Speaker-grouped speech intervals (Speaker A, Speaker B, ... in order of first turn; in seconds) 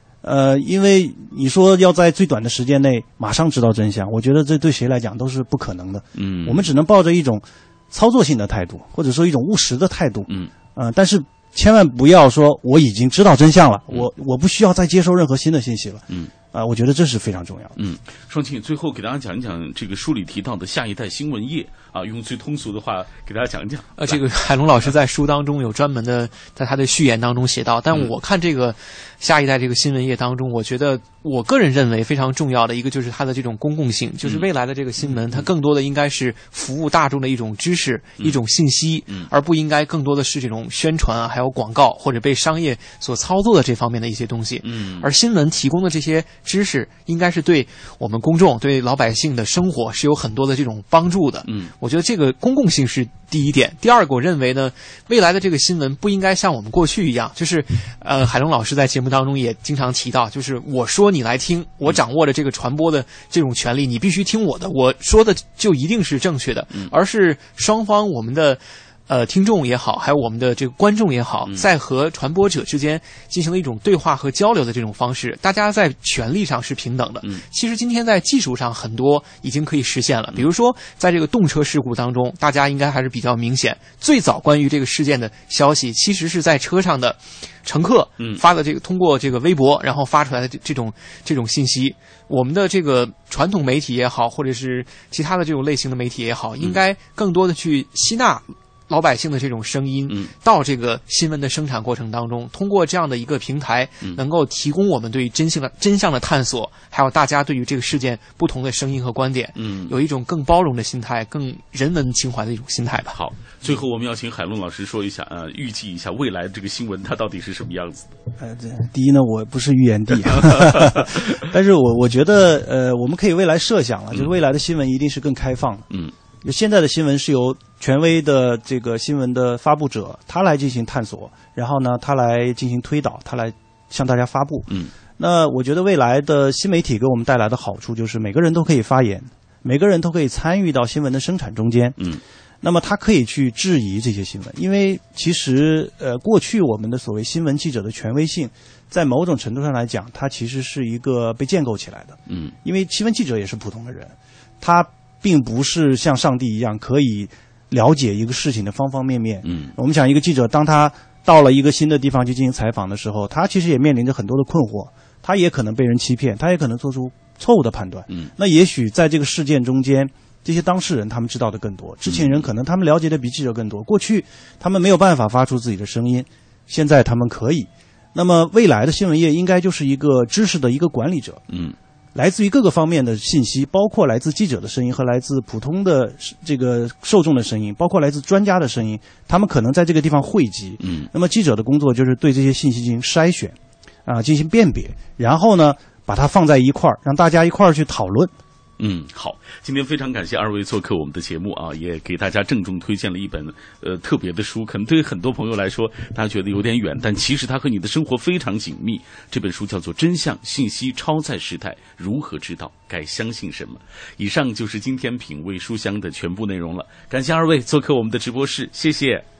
Speaker A: 0.2-17.8, 118.4-125.9, 126.4-142.0, 142.6-181.4, 182.2-198.3
Speaker B: 6.2-6.7, 17.8-24.2, 35.0-35.5, 44.6-45.1, 51.5-51.7, 109.6-109.9, 113.1-118.1, 120.8-121.0, 152.3-152.5, 159.4-159.7, 172.1-172.5, 181.5-181.8, 190.8-191.1, 198.8-219.2
Speaker C: 24.0-113.2